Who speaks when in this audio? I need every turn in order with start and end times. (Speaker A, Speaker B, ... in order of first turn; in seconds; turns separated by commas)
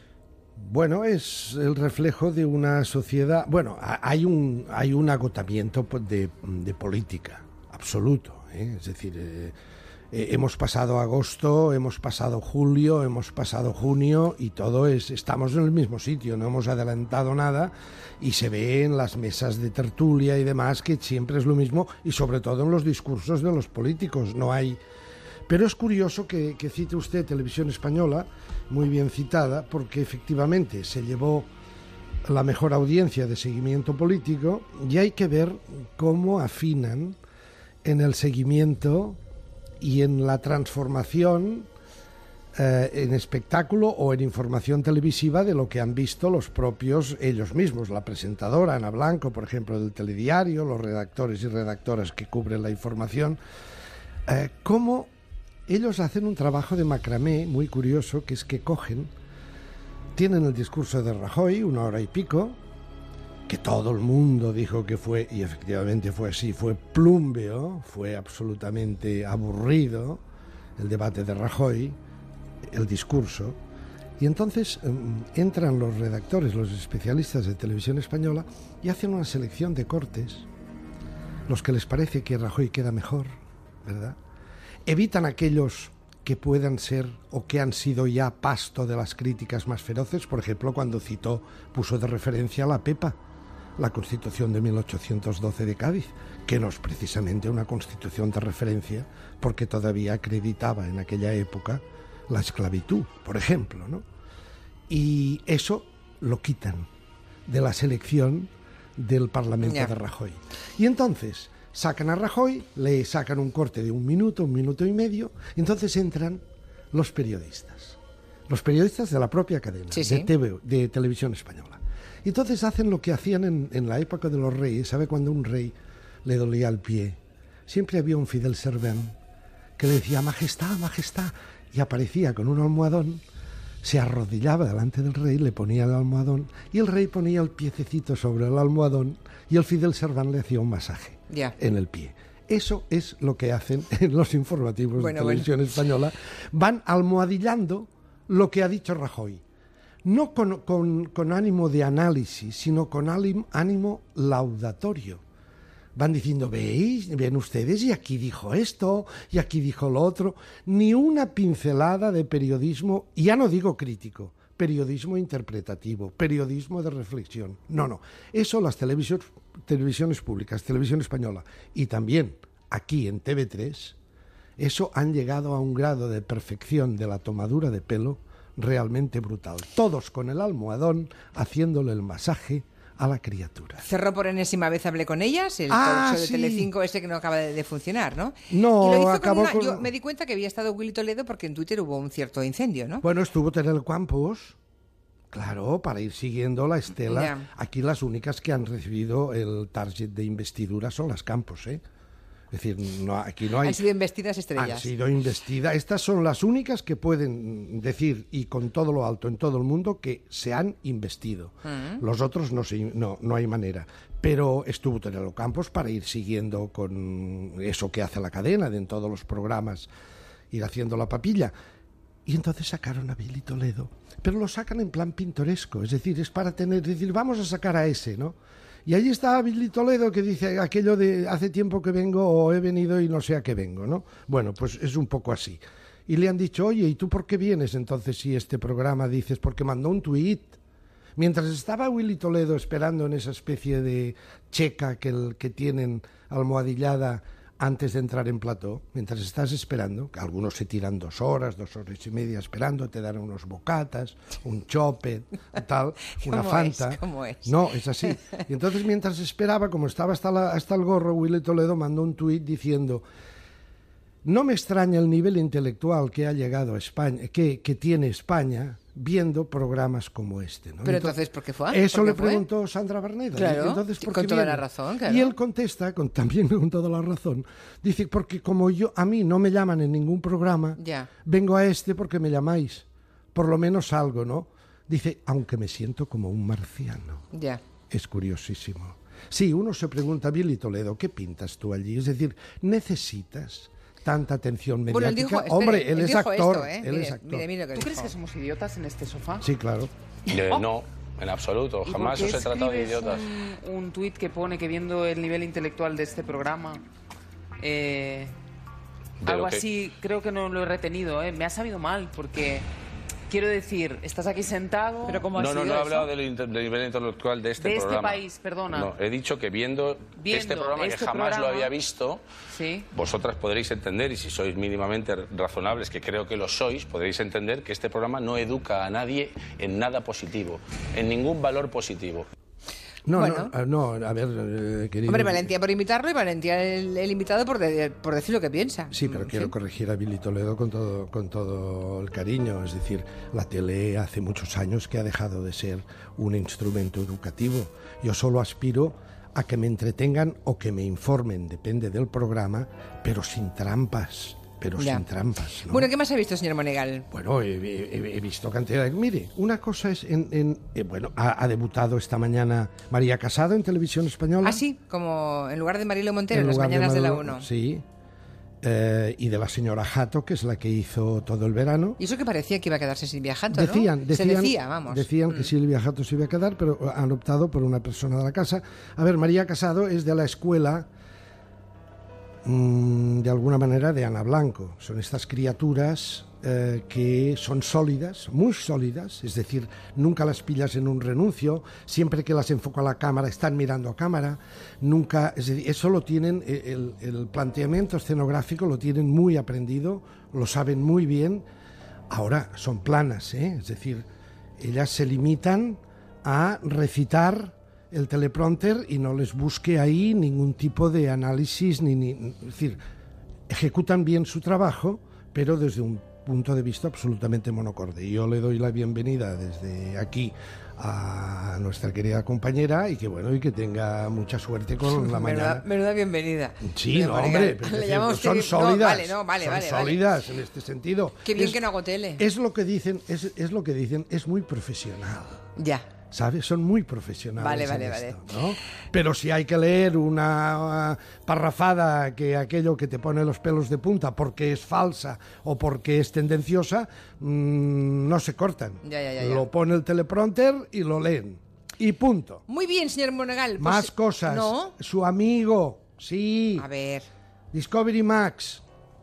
Speaker A: 0.6-9.5, Speaker A: 10.1-24.8, Speaker A: 25.5-31.5, Speaker A: 32.2-37.2, Speaker A: 37.8-39.2, Speaker A: 39.8-41.7, Speaker A: 42.5-53.4, Speaker A: 54.3-55.1, Speaker A: 55.7-59.1, Speaker A: 60.1-62.6, Speaker A: 63.5-70.2, Speaker A: 70.8-72.0, Speaker A: 72.7-73.6, Speaker A: 74.2-80.5, Speaker A: 81.5-84.2, Speaker A: 84.8-93.2, Speaker A: 93.8-104.0, Speaker A: 104.9-106.9, Speaker A: 107.5-129.1, Speaker B: 109.6-109.9, Speaker B: 119.9-120.3, Speaker A: 129.8-133.2, Speaker A: 133.8-149.4, Speaker B: 141.3-141.5, Speaker B: 145.0-145.5, Speaker A: 150.0-155.2, Speaker A: 155.9-173.9, Speaker A: 174.6-183.8, Speaker B: 183.8-193.0, Speaker A: 185.7-186.7, Speaker A: 188.5-189.9, Speaker A: 193.0-194.6, Speaker A: 195.3-201.8, Speaker B: 197.1-197.4, Speaker A: 202.5-203.8, Speaker B: 203.6-204.9, Speaker A: 204.6-219.9, Speaker B: 211.7-212.0, Speaker A: 220.5-221.5, Speaker A: 222.2-240.6, Speaker A: 241.2-263.1, Speaker B: 256.2-258.4, Speaker A: 264.2-271.2, Speaker B: 270.8-272.4, Speaker A: 271.7-287.2, Speaker B: 273.3-275.3, Speaker B: 280.8-281.1, Speaker B: 287.3-287.6, Speaker A: 287.9-297.5, Speaker B: 294.9-298.1, Speaker C: 297.8-299.4, Speaker A: 299.4-299.9, Speaker D: 300.3-303.3, Speaker C: 301.9-306.8, Speaker C: 307.6-308.3, Speaker D: 309.2-309.6, Speaker C: 309.2-312.7, Speaker C: 313.3-315.8, Speaker B: 315.1-316.1, Speaker D: 315.4-322.2, Speaker C: 317.6-318.9, Speaker C: 320.2-321.7, Speaker C: 322.5-322.9, Speaker D: 322.9-332.3, Speaker A: 333.1-335.5, Speaker B: 333.1-333.5, Speaker B: 335.1-339.5, Speaker A: 338.9-355.9, Speaker B: 354.8-355.0, Speaker B: 355.7-357.1, Speaker A: 357.1-364.6, Speaker B: 364.4-367.5, Speaker A: 366.3-367.8, Speaker A: 368.6-372.0, Speaker B: 372.0-375.5, Speaker A: 373.5-380.9, Speaker A: 382.4-401.4, Speaker A: 402.1-404.1, Speaker A: 404.6-412.8, Speaker A: 413.5-425.6, Speaker B: 424.9-430.0, Speaker A: 426.6-431.6, Speaker B: 431.2-432.2, Speaker A: 432.2-435.5, Speaker B: 435.6-435.9, Speaker A: 436.1-452.4, Speaker B: 437.4-438.2, Speaker B: 448.8-449.5, Speaker B: 452.5-454.7, Speaker A: 453.6-456.7, Speaker B: 456.6-457.1, Speaker A: 457.5-458.6